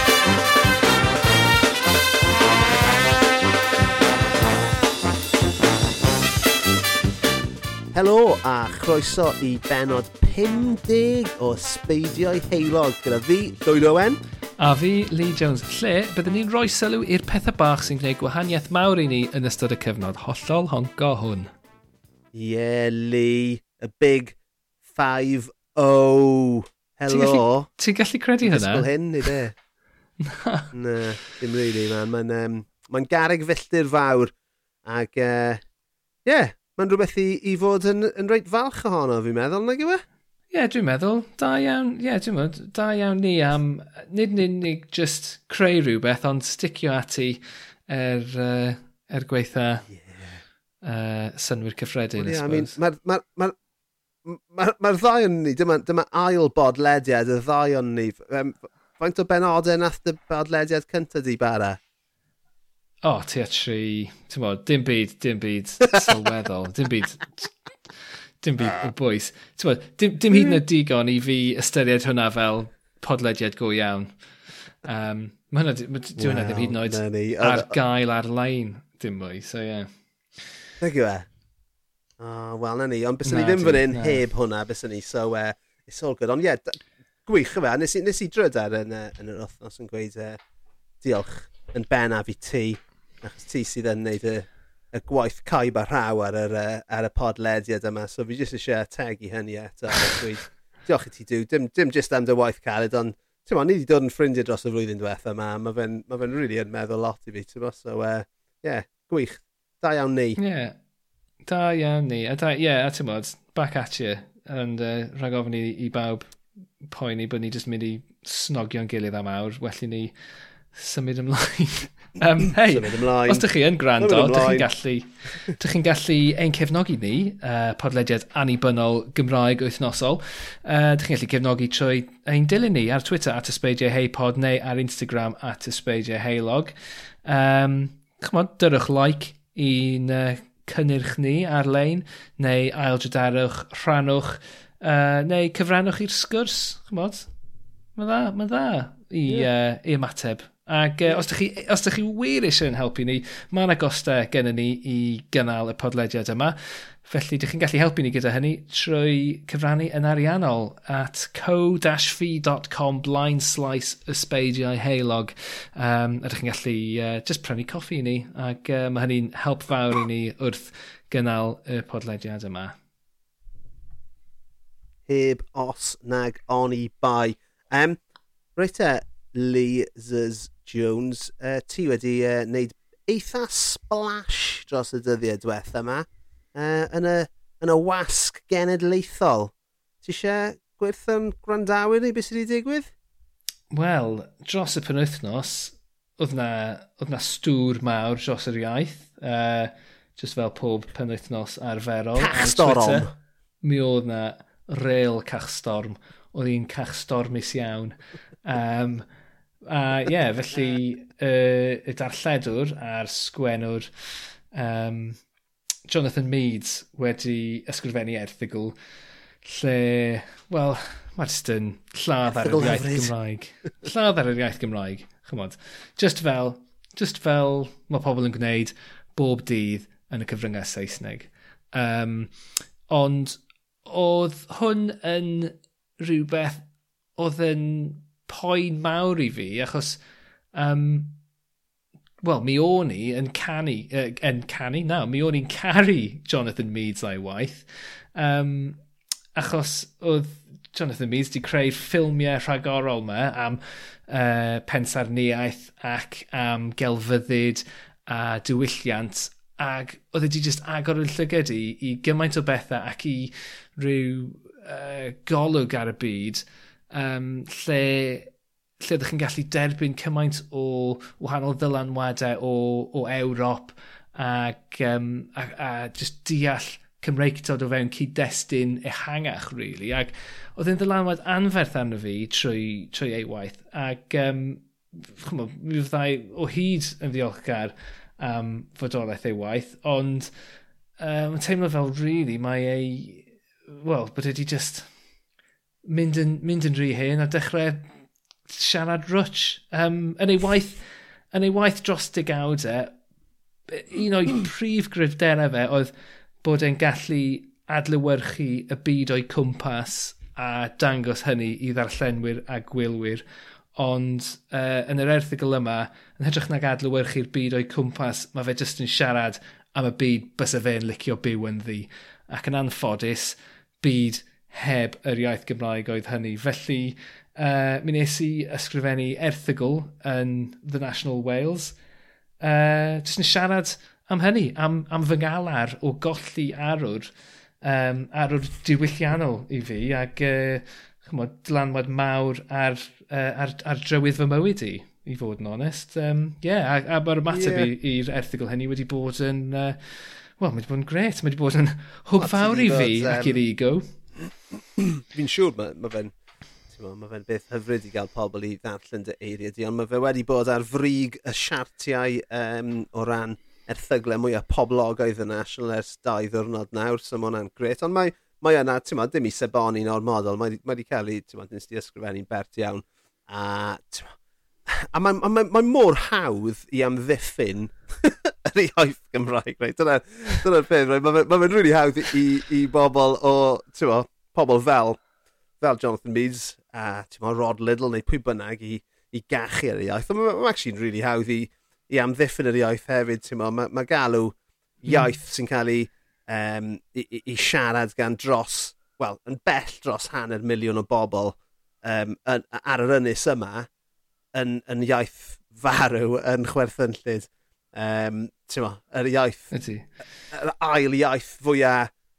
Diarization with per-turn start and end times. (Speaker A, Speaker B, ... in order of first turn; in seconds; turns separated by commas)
Speaker A: 7.9-14.2, Speaker B: 14.6-21.5, Speaker A: 22.3-24.4, Speaker A: 24.9-27.7, Speaker B: 27.1-28.9, Speaker A: 28.4-29.5, Speaker B: 30.2-30.7, Speaker A: 30.7-34.3, Speaker A: 34.8-35.6, Speaker A: 36.2-40.0, Speaker B: 40.5-49.9, Speaker A: 49.9-50.4, Speaker B: 50.8-52.7, Speaker A: 52.2-53.5, Speaker A: 54.2-61.8, Speaker B: 63.0-67.5, Speaker B: 68.4-74.2, Speaker B: 74.8-80.5, Speaker A: 76.2-77.7, Speaker A: 80.8-81.3, Speaker A: 82.2-90.4, Speaker B: 83.2-84.2, Speaker A: 91.0-110.4, Speaker B: 110.4-110.7, Speaker B: 111.5-120.1, Speaker B: 120.7-136.7, Speaker A: 122.5-123.5, Speaker A: 124.0-124.7, Speaker B: 137.2-147.3, Speaker B: 147.9-172.8, Speaker A: 175.1-178.0, Speaker A: 178.6-192.9, Speaker B: 193.7-203.1, Speaker A: 202.2-203.1, Speaker B: 203.6-209.0, Speaker B: 209.7-215.2, Speaker B: 215.9-218.8, Speaker B: 219.4-232.3, Speaker A: 222.4-223.1, Speaker B: 232.9-236.7, Speaker B: 237.2-240.0, Speaker B: 240.5-241.2, Speaker B: 242.2-248.8, Speaker B: 249.3-268.3, Speaker B: 268.8-290.3, Speaker B: 291.0-294.9, Speaker B: 295.9-297.9, Speaker B: 298.5-302.9, Speaker B: 303.7-305.9, Speaker B: 306.4-313.2, Speaker B: 313.8-331.8, Speaker B: 332.4-337.1, Speaker B: 337.6-353.9, Speaker A: 347.3-347.7, Speaker A: 352.2-353.4, Speaker A: 354.8-356.1, Speaker A: 356.7-374.1, Speaker A: 374.7-385.0, Speaker A: 385.6-403.7, Speaker A: 404.3-409.5, Speaker B: 409.5-409.9, Speaker A: 410.3-411.9